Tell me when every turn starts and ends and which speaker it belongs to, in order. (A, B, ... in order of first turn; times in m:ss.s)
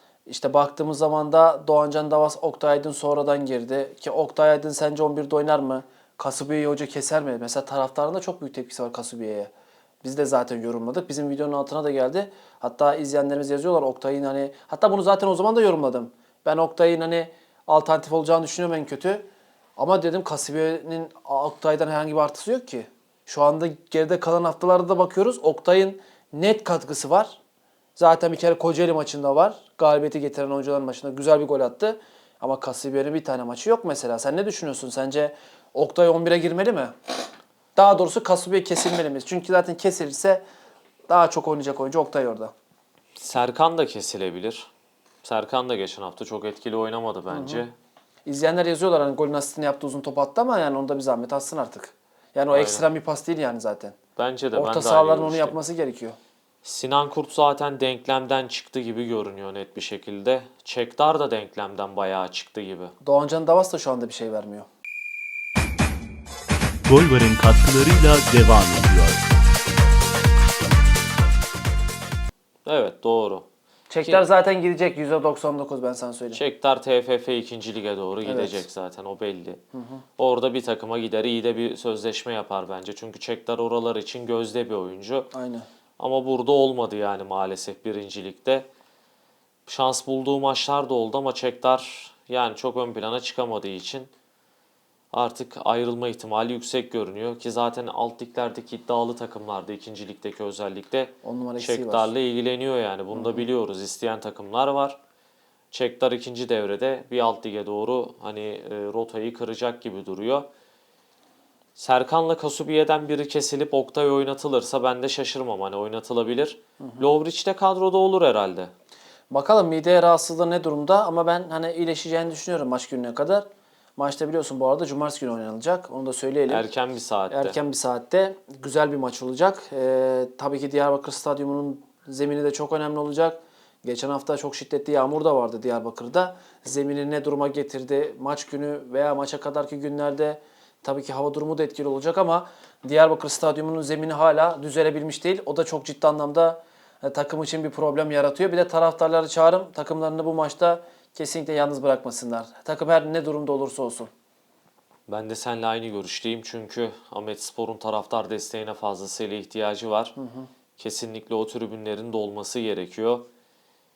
0:00.2-0:09.5 A
0:10.0-0:27.4 A
0:28.0-0:36.9 A
0:37.8-0:40.4 A
0:41.1-0:42.5 A
0:43.2-0:44.7 B
0:45.2-0:47.7 B
0:47.3-0:47.6 A
0:48.2-0:54.0 A
0:52.5-0:52.8 B
0:54.2-0:55.6 B
0:54.6-0:56.2 A
0:56.6-1:02.9 B
1:03.0-1:04.7 A
1:06.9-1:09.2 C
1:12.6-1:13.4 B
1:13.9-1:16.4 A
1:16.3-1:19.6 B
1:18.2-1:18.6 A
1:19.7-1:20.0 A
1:20.2-1:25.3 B
1:25.3-1:25.6 A
1:26.0-1:28.7 B
1:29.6-1:34.1 B
1:35.1-1:45.0 B
1:41.2-1:42.1 A
1:43.1-1:43.4 A
1:45.7-1:50.5 B
1:51.8-1:58.7 B
1:56.8-1:57.1 A
1:59.3-2:06.7 A
2:06.5-2:07.6 B
2:07.3-2:34.1 A
2:35.1-2:40.1 B
2:40.2-2:40.5 A
2:40.8-2:43.3 B